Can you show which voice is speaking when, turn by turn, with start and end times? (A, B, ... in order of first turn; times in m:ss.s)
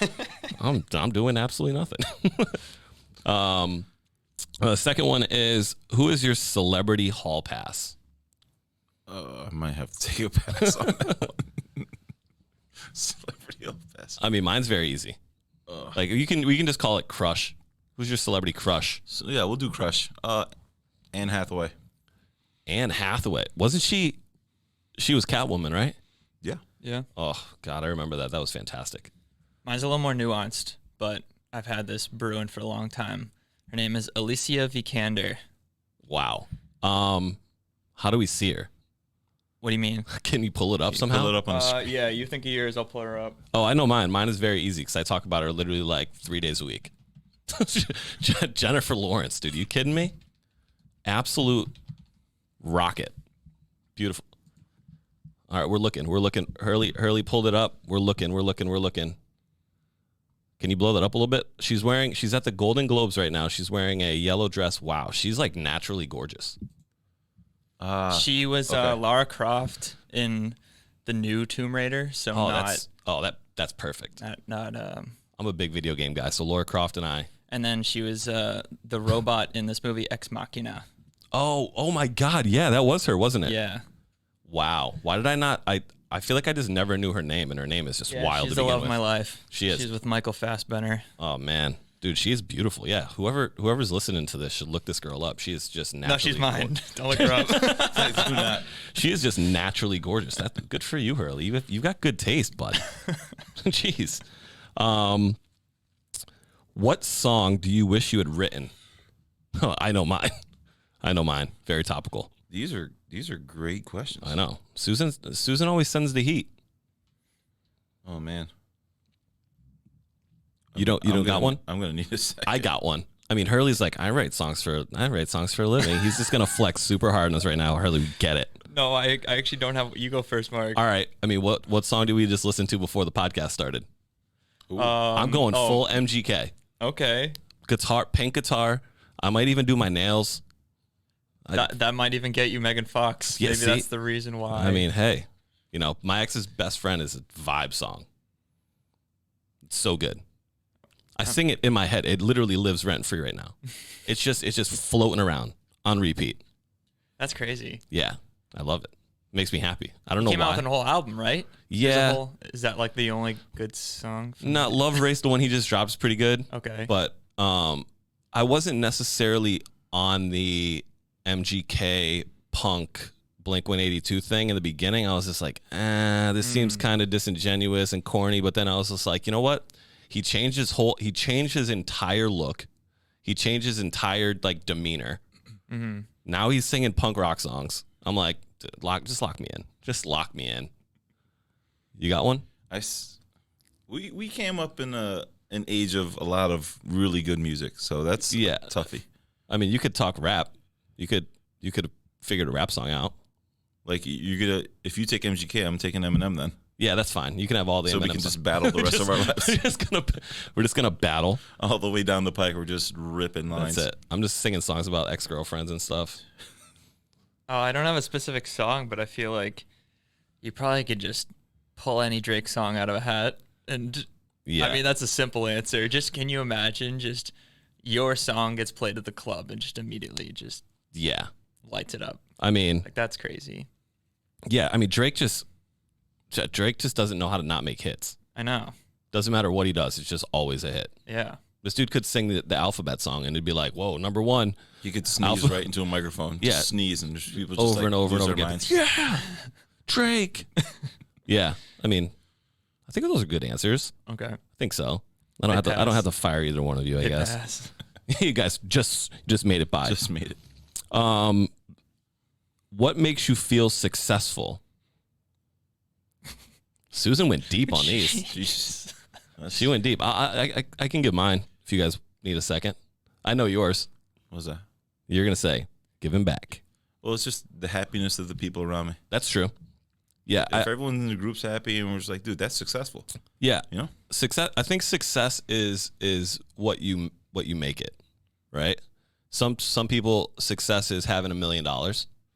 0:00.5-0:02.6 A
0:03.2-0:03.9 A
0:04.6-0:08.0 A
0:09.1-0:11.4 B
0:12.9-0:14.2 B
0:14.2-0:15.2 A
0:15.7-0:16.0 B
0:15.9-0:19.0 A
0:19.1-0:20.5 B
0:21.1-0:21.7 B
0:22.7-0:24.2 A
0:25.0-0:26.0 A
0:26.8-0:27.1 C
0:27.2-0:29.1 A
0:29.6-0:35.4 C
0:36.0-0:37.4 A
0:38.0-0:38.7 A
0:39.6-0:40.1 C
0:40.1-0:41.4 A
0:41.0-0:41.9 B
0:41.5-0:43.4 C
0:43.5-0:46.9 A
0:47.5-0:50.1 A
0:51.1-0:51.7 A
0:52.6-0:53.1 A
0:54.0-0:54.3 A
0:55.5-0:59.2 A
1:00.6-1:06.6 A
1:07.8-1:09.0 B
1:08.1-1:12.9 C
1:12.3-1:14.2 A
1:14.2-1:15.2 C
1:15.4-1:17.3 A
1:17.5-1:20.9 C
1:21.3-1:23.6 A
1:23.4-1:23.8 C
1:24.5-1:29.9 A
1:28.1-1:31.1 C
1:31.2-1:38.0 A
1:36.0-1:38.4 C
1:37.5-1:38.7 B
1:38.8-1:42.9 A
1:43.6-1:44.2 A
1:44.8-1:45.4 A
1:46.8-1:48.7 A
1:49.6-1:50.4 A
1:51.0-1:52.3 A
1:52.5-1:54.4 B
1:54.2-1:56.5 A
1:58.0-1:58.5 B
2:00.7-2:02.7 B
2:00.8-2:01.6 A
2:02.5-2:08.6 A
2:08.7-2:10.8 C
2:10.7-2:13.9 A
2:14.7-2:15.0 B
2:14.8-2:15.9 C
2:15.1-2:16.5 A
2:16.8-2:17.4 C
2:17.6-2:20.4 A
2:21.5-2:24.9 C
2:23.4-2:23.9 A
2:24.5-2:28.1 A
2:29.7-2:30.2 A
2:31.2-2:33.5 A
2:34.1-2:36.4 A
2:37.2-2:37.8 C
2:37.9-2:40.6 A
2:40.2-2:45.0 C
2:41.7-2:42.2 A
2:44.4-3:02.7 A
2:46.5-2:46.9 C
2:56.4-2:56.9 C
3:03.2-3:05.2 A
3:05.7-3:06.1 C
3:06.2-3:10.7 A
3:12.0-3:12.5 A
3:12.7-3:13.2 B
3:13.9-3:19.0 B
3:18.3-3:18.7 A
3:19.5-3:23.2 A
3:23.8-3:26.6 B
3:26.8-3:31.4 A
3:27.9-3:29.6 B
3:31.6-3:33.9 B
3:33.6-3:36.2 A
3:37.5-3:39.7 C
3:40.4-3:47.3 C
3:44.5-3:44.8 A
3:47.8-3:50.6 C
3:50.9-3:51.3 A
3:51.6-3:52.2 C
3:52.4-3:52.9 A
3:52.8-3:53.7 C
3:54.5-3:55.5 A
3:56.3-3:58.2 A
3:58.4-3:58.7 C
3:59.1-4:00.9 A
4:01.1-4:01.4 C
4:01.6-4:04.6 A
4:04.8-4:08.8 B
4:05.2-4:05.6 A
4:06.4-4:06.7 A
4:07.6-4:09.3 A
4:09.9-4:10.5 A
4:11.3-4:12.1 A
4:12.9-4:13.9 A
4:14.1-4:14.4 C
4:14.6-4:17.4 A
4:15.5-4:16.0 C
4:17.0-4:17.7 C
4:18.1-4:20.0 A
4:19.8-4:20.4 B
4:20.9-4:21.5 A
4:22.7-4:24.6 A
4:26.9-4:28.3 A
4:27.7-4:28.9 C
4:28.3-4:28.9 B
4:29.4-4:29.7 B
4:29.5-4:33.9 A
4:34.3-4:34.6 B
4:35.1-4:36.6 A
4:37.0-4:39.0 B
4:39.1-4:39.5 A
4:40.3-4:40.7 A
4:40.4-4:43.1 B
4:43.4-4:48.0 A
4:48.5-4:48.8 A
4:49.3-4:52.1 A